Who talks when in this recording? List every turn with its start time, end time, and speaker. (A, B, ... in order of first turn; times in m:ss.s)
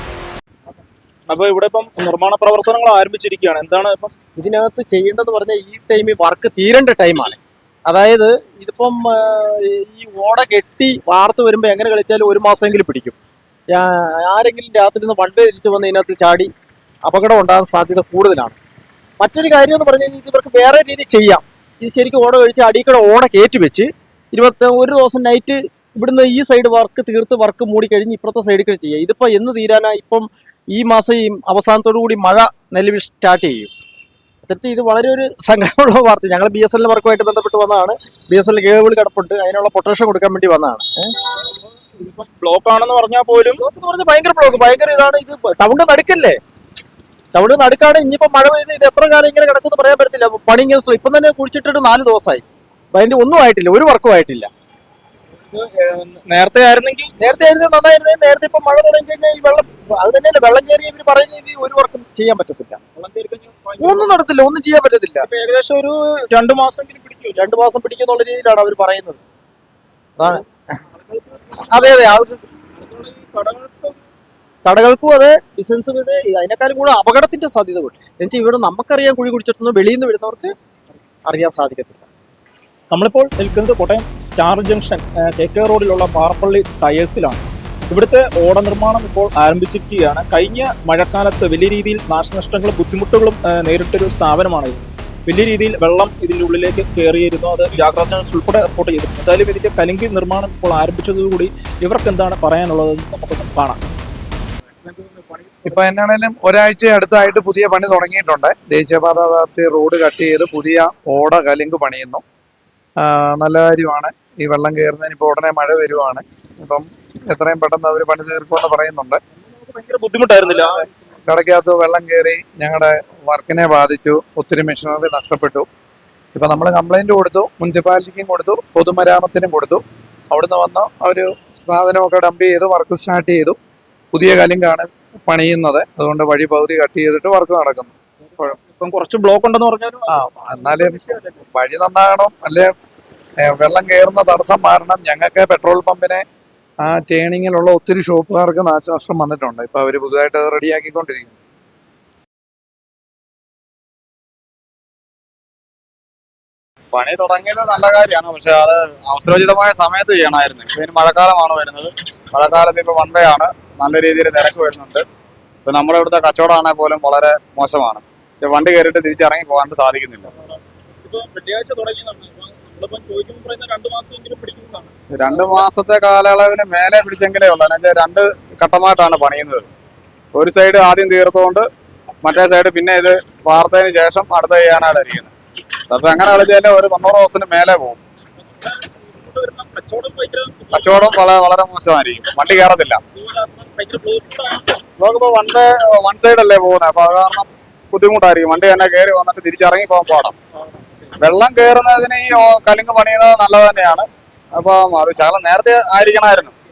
0:01.3-0:04.1 A
0:04.4-0:13.1 B
0:13.7-0:16.5 B
0:17.0-0:18.6 B
0:19.2-0:33.7 B
0:34.4-0:41.1 B
0:41.9-0:43.6 A
0:43.6-0:46.4 B
0:47.3-0:54.5 B
0:55.4-0:57.1 A
0:57.2-1:02.8 B
1:03.0-1:04.2 A
1:03.8-1:05.3 B
1:05.2-1:07.5 A
1:07.4-1:09.2 B
1:10.2-1:10.4 B
1:11.0-1:12.1 A
1:11.7-1:12.4 B
1:12.8-1:14.0 A
1:14.6-1:20.5 B
1:21.3-1:22.0 B
1:22.9-1:27.4 A
1:27.9-1:43.8 A
1:44.8-1:45.8 A
1:45.6-1:52.2 C
1:53.0-1:59.2 C
1:59.4-2:00.9 A
2:01.2-2:05.7 C
2:06.3-2:13.6 C
2:14.1-2:18.5 C
2:18.4-2:21.4 A
2:20.1-2:22.7 C
2:23.4-2:26.2 C
2:26.8-2:31.3 C
2:36.9-2:45.0 D
2:45.6-2:50.3 D
2:51.0-2:55.7 A
2:55.2-2:59.7 D
3:00.3-3:01.7 D
3:02.2-3:05.3 D
3:05.9-3:08.0 D
3:08.6-3:11.1 A
3:10.7-3:13.0 D
3:13.1-3:14.8 A
3:15.0-3:20.4 D
3:21.2-3:26.5 D